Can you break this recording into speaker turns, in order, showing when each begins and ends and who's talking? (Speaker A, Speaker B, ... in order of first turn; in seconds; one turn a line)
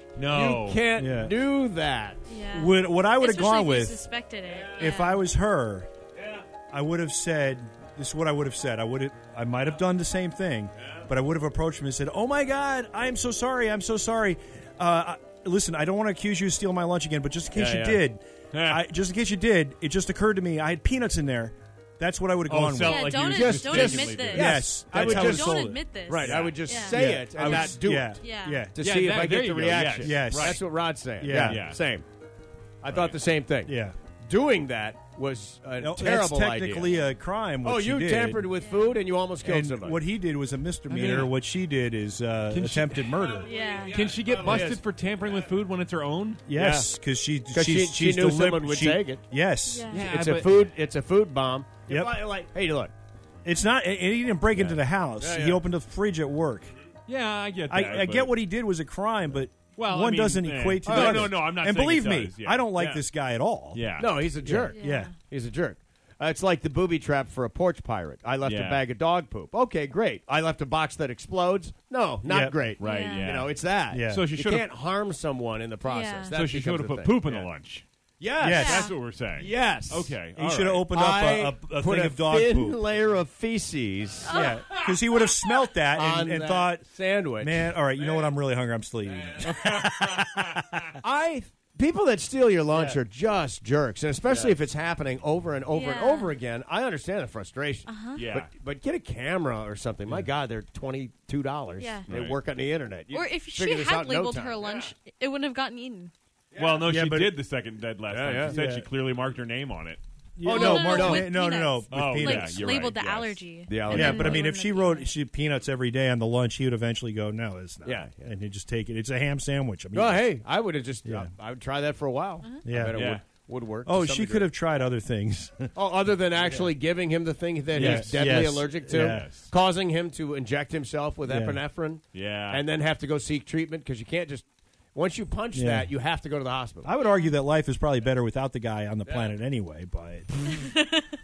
Speaker A: 0.2-0.8
Speaker B: 0.3-2.3
Speaker C: 1.0-1.3
Speaker D: 2.3-5.2
Speaker C: 2.5-4.0
Speaker C: 4.7-5.9
Speaker C: 6.7-23.2
Speaker B: 17.5-18.0
Speaker A: 18.5-18.9
Speaker A: 22.5-25.3
Speaker D: 22.9-24.5
Speaker B: 23.2-28.2
Speaker C: 24.3-25.8
Speaker D: 25.3-27.0
Speaker A: 26.1-26.6
Speaker C: 26.3-28.8
Speaker A: 27.4-27.8
Speaker D: 28.2-28.6
Speaker B: 28.7-32.0
Speaker A: 28.8-30.6
Speaker C: 30.0-30.6
Speaker C: 31.2-31.6
Speaker A: 31.4-31.8
Speaker B: 32.8-37.0
Speaker A: 32.9-33.2
Speaker C: 33.6-34.0
Speaker C: 35.8-38.5
Speaker B: 37.6-40.0
Speaker D: 38.6-39.0
Speaker C: 39.4-43.5
Speaker A: 40.9-41.3
Speaker A: 42.5-46.4
Speaker D: 43.4-44.0
Speaker B: 44.0-44.8
Speaker C: 46.5-49.9
Speaker B: 46.5-46.9
Speaker B: 47.5-49.2
Speaker D: 49.7-50.0
Speaker A: 49.9-50.5
Speaker B: 49.9-52.9
Speaker C: 51.9-52.2
Speaker C: 53.5-56.7
Speaker B: 54.5-55.6
Speaker A: 57.1-58.4
Speaker C: 57.7-63.9
Speaker A: 59.8-62.7
Speaker B: 60.9-61.4
Speaker B: 62.8-63.0
Speaker A: 63.7-64.1
Speaker B: 64.0-77.5
Speaker C: 64.4-65.1
Speaker D: 64.8-65.1
Speaker A: 68.5-68.8
Speaker C: 72.2-72.6
Speaker D: 72.8-73.2
Speaker A: 72.9-73.5
Speaker C: 73.9-74.3
Speaker A: 74.1-74.7
Speaker D: 75.9-76.4
Speaker A: 76.3-77.8
Speaker B: 78.2-80.1
Speaker C: 78.4-78.9
Speaker A: 78.5-80.9
Speaker D: 78.7-78.9
Speaker C: 80.3-82.8
Speaker B: 80.9-84.4
Speaker D: 84.3-84.7
Speaker C: 84.3-86.8
Speaker A: 84.7-85.5
Speaker B: 85.9-87.7
Speaker C: 87.4-90.8
Speaker A: 89.4-90.8
Speaker B: 91.0-104.8
Speaker C: 92.7-93.0
Speaker D: 95.7-96.3
Speaker D: 97.9-98.2
Speaker A: 98.2-98.5
Speaker D: 101.8-102.1
Speaker A: 102.1-102.4
Speaker D: 103.1-106.1
Speaker A: 106.5-110.0
Speaker C: 106.8-107.4
Speaker B: 108.1-108.6
Speaker C: 108.5-108.9
Speaker C: 110.4-112.8
Speaker B: 110.4-111.3
Speaker D: 110.5-115.1
Speaker A: 111.9-113.3
Speaker B: 112.6-114.5
Speaker C: 113.9-120.3
Speaker B: 117.8-118.3
Speaker B: 119.9-124.5
Speaker C: 121.1-121.3
Speaker C: 122.7-123.0
Speaker A: 123.0-123.2
Speaker C: 123.8-125.7
Speaker B: 125.8-136.9
Speaker C: 127.7-129.3
Speaker A: 127.7-129.5
Speaker C: 131.3-131.6
Speaker A: 132.1-132.6
Speaker C: 135.5-135.9
Speaker C: 136.8-140.7
Speaker B: 139.1-139.3
Speaker D: 140.6-141.0